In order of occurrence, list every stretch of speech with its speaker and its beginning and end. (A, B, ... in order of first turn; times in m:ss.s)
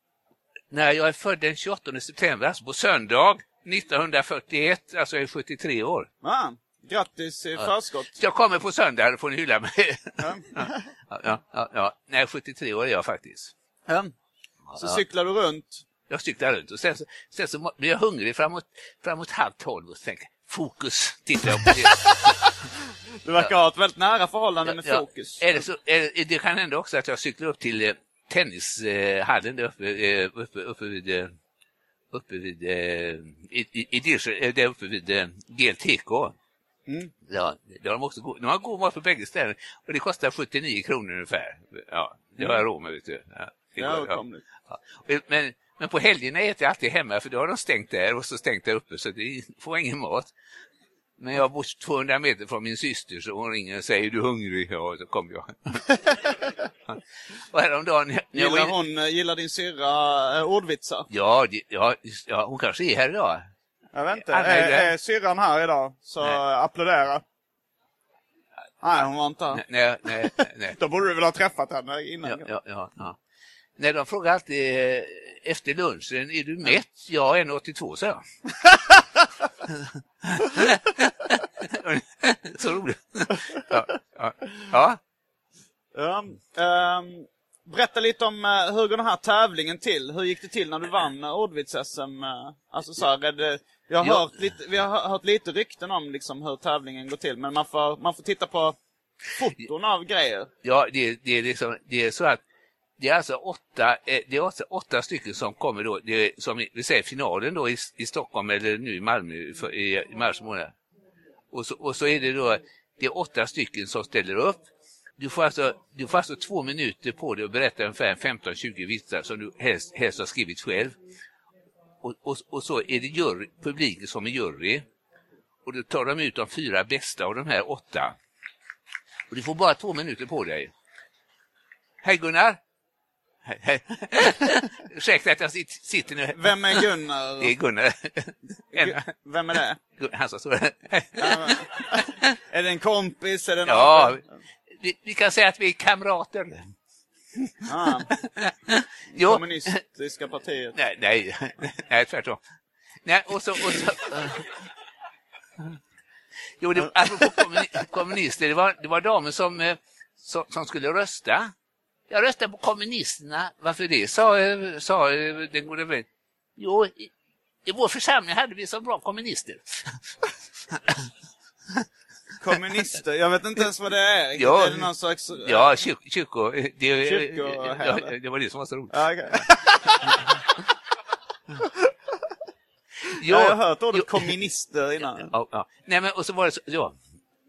0:00.7-0:06.1 A
0:06.2-0:08.1 B
0:07.6-0:13.5 A
0:10.2-0:10.9 B
0:14.7-0:15.0 A
0:14.8-0:15.8 B
0:16.1-0:22.4 A
0:23.2-0:25.6 B
0:24.6-0:31.3 A
0:32.1-0:36.4 A
0:36.9-0:37.1 B
0:37.3-0:50.3 A
0:42.4-0:42.6 B
0:43.8-0:44.4 B
0:51.2-0:55.8 A
0:57.5-0:58.7 A
0:58.3-1:01.0 B
1:01.1-1:03.5 A
1:03.9-1:07.2 B
1:04.2-1:04.9 A
1:08.8-1:09.6 B
1:09.5-1:10.8 A
1:10.8-1:12.5 B
1:12.2-1:13.2 A
1:13.8-1:18.2 A
1:19.7-1:25.0 A
1:25.9-1:38.8 B
1:34.0-1:34.4 A
1:39.3-1:40.5 B
1:40.6-1:42.4 A
1:43.0-1:50.7 A
1:51.5-1:54.6 A
1:55.2-2:01.0 A
2:02.0-2:04.8 A
2:05.6-2:08.2 A
2:09.3-2:10.7 A
2:12.0-2:12.6 A
2:13.4-2:19.0 A
2:16.3-2:17.5 B
2:18.7-2:19.8 B
2:20.0-2:22.3 A
2:21.2-2:24.3 B
2:23.6-2:24.2 A
2:24.8-2:26.7 A
2:27.4-2:27.7 A
2:27.7-2:28.1 B
2:28.2-2:29.8 A
2:29.1-2:30.7 B
2:30.7-2:32.4 A
2:33.0-2:34.7 A
2:36.6-2:41.5 A
2:42.1-2:46.0 A
2:46.6-2:47.1 A
2:47.6-2:50.1 A
2:52.4-2:55.7 B
2:54.4-2:54.9 A
2:55.4-2:59.5 A
2:57.0-2:58.1 B
2:58.9-3:00.2 B
3:03.1-3:05.3 B
3:03.1-3:04.3 A
3:05.3-3:07.0 A